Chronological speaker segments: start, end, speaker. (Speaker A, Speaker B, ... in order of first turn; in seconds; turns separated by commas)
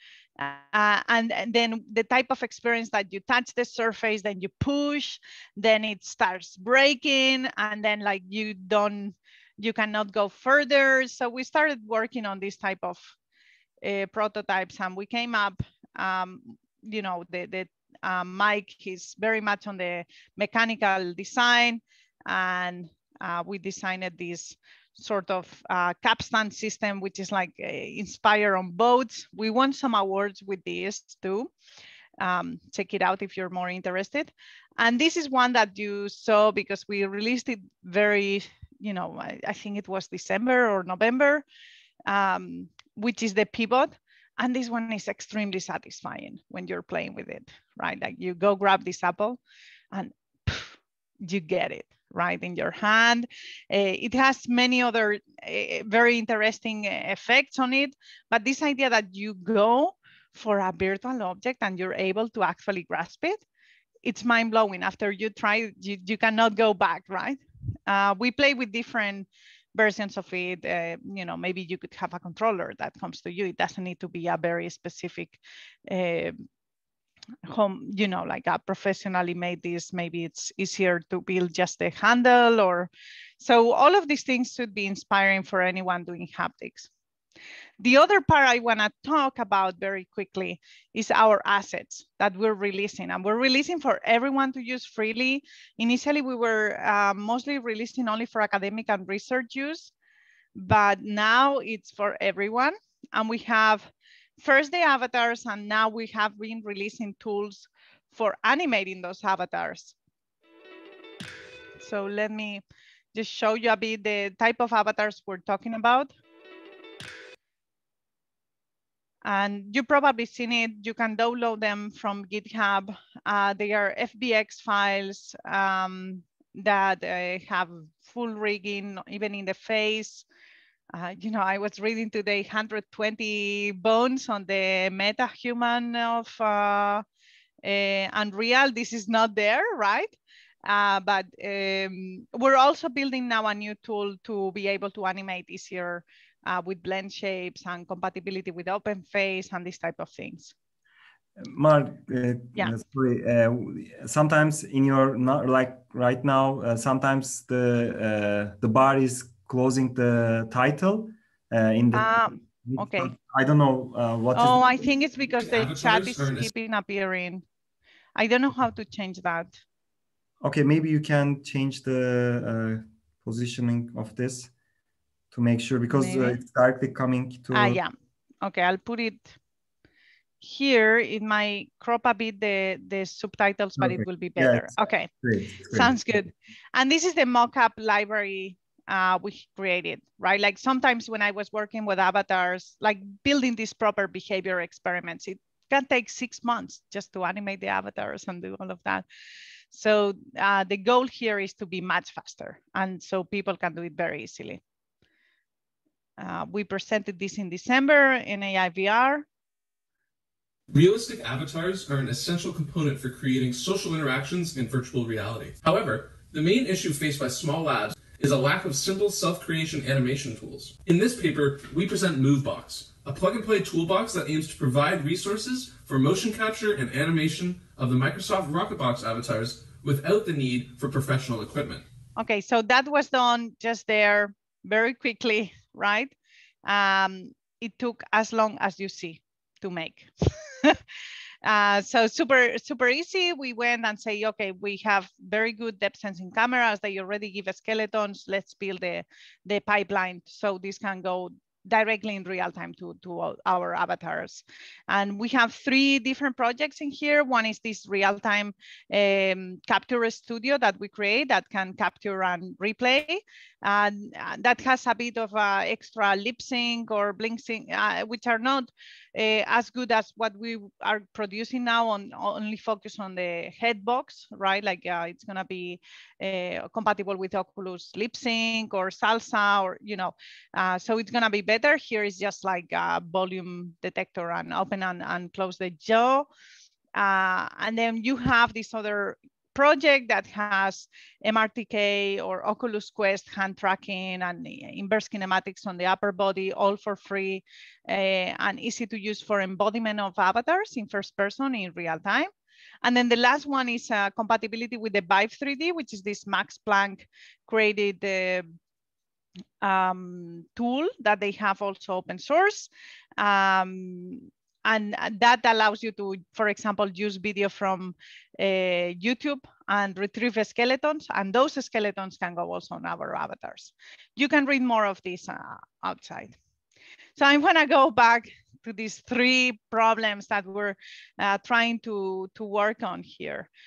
Speaker A: 0.4-13.1, Speaker A: 13.8-31.5, Speaker A: 32.2-41.4, Speaker A: 42.1-49.4, Speaker A: 49.9-63.4, Speaker A: 64.0-76.4, Speaker A: 77.5-82.9, Speaker A: 83.4-86.9, Speaker A: 87.8-99.9, Speaker A: 100.6-109.9, Speaker A: 111.8-112.6, Speaker A: 113.1-116.1, Speaker A: 119.2-130.2, Speaker A: 130.9-137.0, Speaker A: 137.6-150.5, Speaker B: 151.4-162.1, Speaker A: 161.9-163.1, Speaker B: 162.6-164.6, Speaker A: 164.3-167.4, Speaker C: 165.4-166.5, Speaker A: 168.2-169.6, Speaker B: 170.4-174.5, Speaker B: 175.3-177.8, Speaker A: 175.9-176.4, Speaker A: 177.5-179.3, Speaker A: 180.4-185.1, Speaker B: 183.8-185.9, Speaker A: 185.7-199.1, Speaker A: 199.7-204.6, Speaker A: 206.2-209.3, Speaker C: 210.7-231.8, Speaker A: 232.2-236.1, Speaker A: 236.7-240.8, Speaker A: 241.4-286.3, Speaker A: 286.9-302.3, Speaker A: 302.8-308.5, Speaker A: 309.6-326.4, Speaker A: 327.2-333.5